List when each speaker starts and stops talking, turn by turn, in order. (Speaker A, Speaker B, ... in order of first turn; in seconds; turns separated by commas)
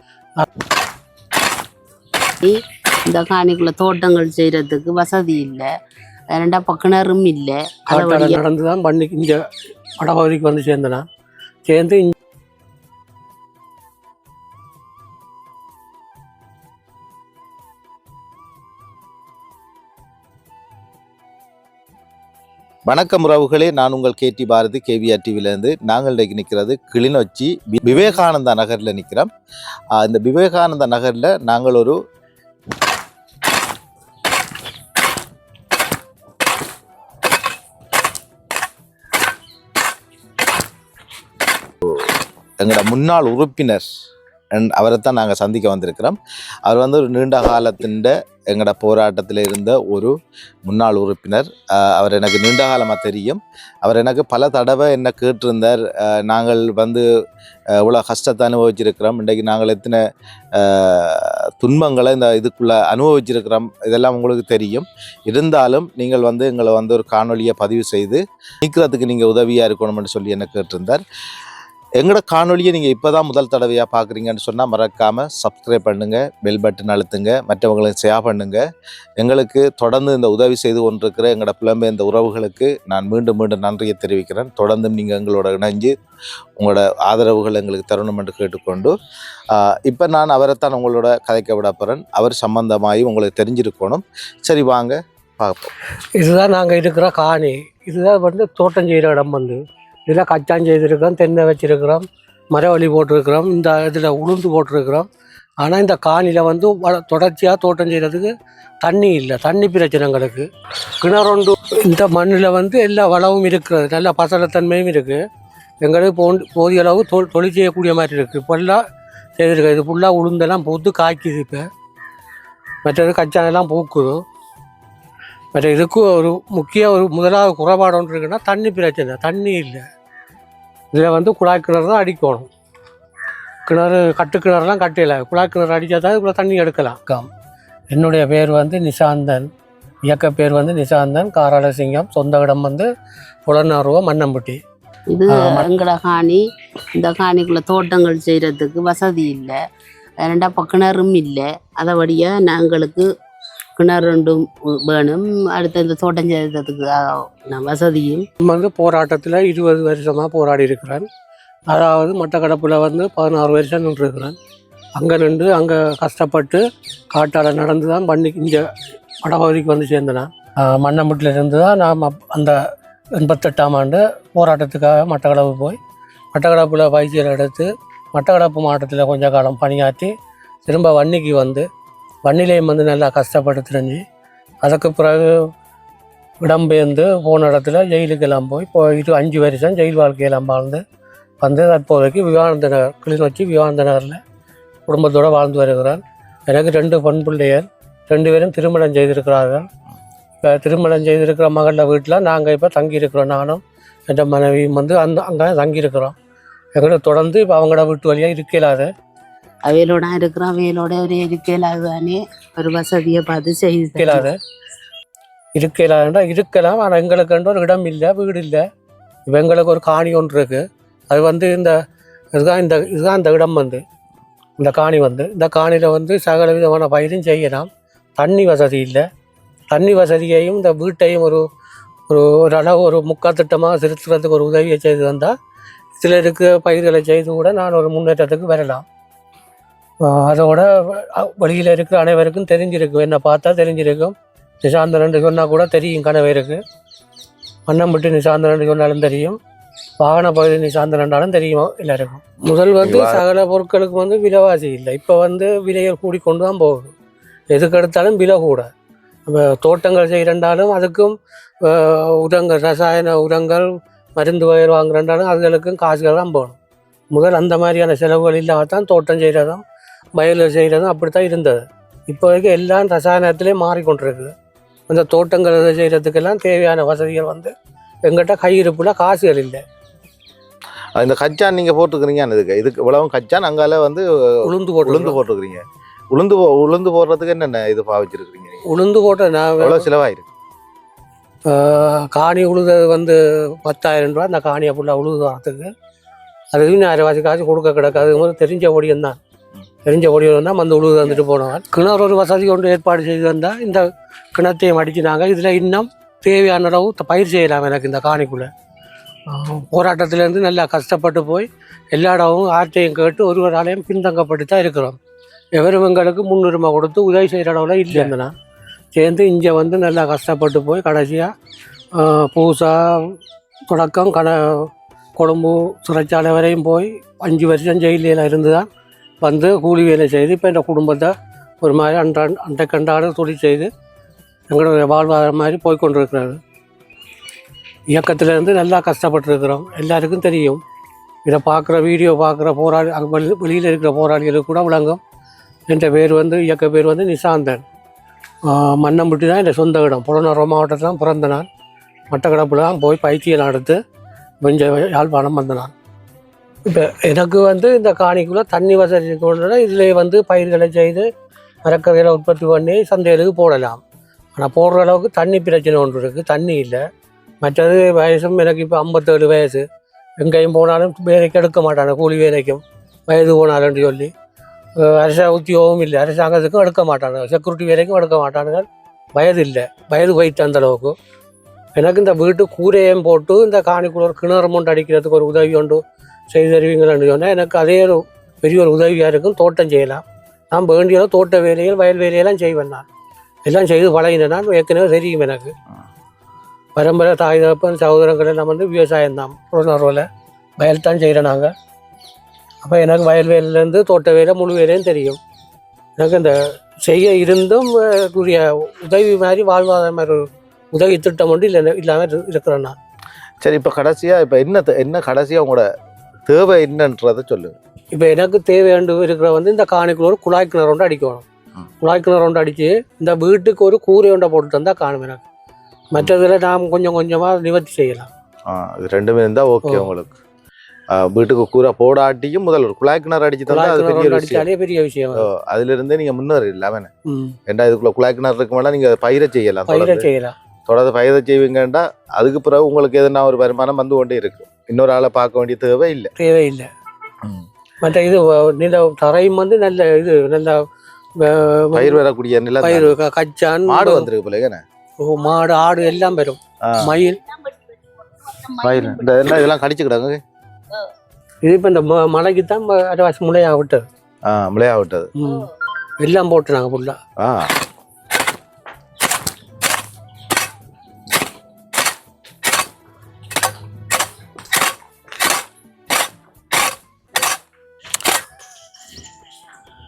Speaker A: 2.4-5.7, Speaker A: 6.3-8.4, Speaker B: 7.9-9.4, Speaker B: 10.0-11.1, Speaker B: 11.7-12.1, Speaker C: 22.9-29.3, Speaker C: 30.0-32.0, Speaker C: 42.6-43.9, Speaker C: 44.5-50.1, Speaker C: 50.7-57.0, Speaker C: 57.8-60.0, Speaker C: 60.6-71.0, Speaker C: 72.0-78.6, Speaker C: 79.2-85.9, Speaker C: 86.6-89.0, Speaker C: 89.5-95.7, Speaker B: 96.2-105.1, Speaker B: 105.6-108.3, Speaker B: 108.8-110.5, Speaker B: 111.0-115.2, Speaker B: 115.8-118.8, Speaker B: 119.4-121.7, Speaker B: 122.8-124.2, Speaker B: 125.5-129.8, Speaker B: 130.9-132.5, Speaker B: 133.7-137.3, Speaker B: 137.9-139.5, Speaker B: 140.1-142.9, Speaker B: 143.5-144.6, Speaker A: 145.1-146.4, Speaker B: 145.3-145.7, Speaker A: 147.0-149.6, Speaker A: 150.2-153.1, Speaker A: 153.8-158.2, Speaker B: 158.4-161.1, Speaker B: 161.7-164.4, Speaker B: 165.0-166.6, Speaker B: 167.1-168.7, Speaker B: 169.2-172.6, Speaker B: 173.2-175.8, Speaker B: 176.3-180.1, Speaker B: 180.7-181.7, Speaker B: 182.3-184.0, Speaker B: 184.6-185.5, Speaker B: 186.4-190.8, Speaker B: 191.4-194.2, Speaker B: 194.9-199.7, Speaker B: 200.4-206.2, Speaker B: 206.8-208.9, Speaker A: 209.7-214.3, Speaker B: 214.0-214.4, Speaker B: 215.6-218.6, Speaker B: 219.3-221.8, Speaker B: 222.3-223.8, Speaker B: 224.6-229.1, Speaker B: 229.7-231.4, Speaker B: 232.1-235.3, Speaker B: 236.0-238.8, Speaker B: 240.0-246.6, Speaker B: 247.7-249.4, Speaker B: 250.0-256.9, Speaker C: 252.8-253.2, Speaker B: 257.5-258.7, Speaker B: 259.3-266.6, Speaker B: 267.1-269.6, Speaker B: 270.2-274.3, Speaker B: 274.9-277.5, Speaker B: 278.1-279.6, Speaker C: 281.0-288.6, Speaker B: 284.5-285.2, Speaker B: 288.7-289.9, Speaker C: 289.6-290.3, Speaker B: 291.5-295.7, Speaker B: 296.5-299.2, Speaker B: 299.9-308.5, Speaker B: 309.3-315.0, Speaker B: 315.6-318.3, Speaker B: 318.9-321.3, Speaker B: 321.9-323.2, Speaker B: 323.7-328.7, Speaker B: 329.2-333.7, Speaker B: 334.5-336.4, Speaker B: 337.9-340.6, Speaker B: 341.3-345.0, Speaker B: 345.7-347.6, Speaker B: 348.4-351.5, Speaker B: 352.1-353.8, Speaker B: 354.4-355.7, Speaker B: 356.7-361.1, Speaker B: 361.7-363.8, Speaker B: 364.4-366.8, Speaker B: 367.4-369.7, Speaker B: 370.2-374.1, Speaker B: 374.8-380.9, Speaker B: 381.8-385.8, Speaker B: 386.3-392.9, Speaker B: 393.4-395.6, Speaker B: 396.8-400.1, Speaker B: 400.6-401.5, Speaker B: 402.6-405.2, Speaker B: 406.0-412.8, Speaker C: 413.4-415.7, Speaker C: 416.3-417.6, Speaker B: 417.9-421.3, Speaker B: 421.8-425.2, Speaker B: 425.9-428.1, Speaker C: 428.5-430.2, Speaker B: 429.6-429.9, Speaker C: 430.9-434.5, Speaker B: 433.5-435.3, Speaker C: 435.2-436.9, Speaker B: 437.1-437.4, Speaker C: 437.5-440.1, Speaker B: 439.7-440.4, Speaker C: 440.7-446.1, Speaker B: 446.2-446.7, Speaker B: 447.8-450.6, Speaker B: 451.2-452.0, Speaker C: 451.8-453.0, Speaker B: 452.6-454.1, Speaker C: 453.7-454.6, Speaker B: 455.0-457.2, Speaker C: 456.6-457.0, Speaker A: 458.2-458.6, Speaker C: 458.6-460.2, Speaker B: 461.4-463.8, Speaker C: 464.3-465.1, Speaker B: 465.2-465.5, Speaker B: 466.0-467.0, Speaker C: 467.2-467.5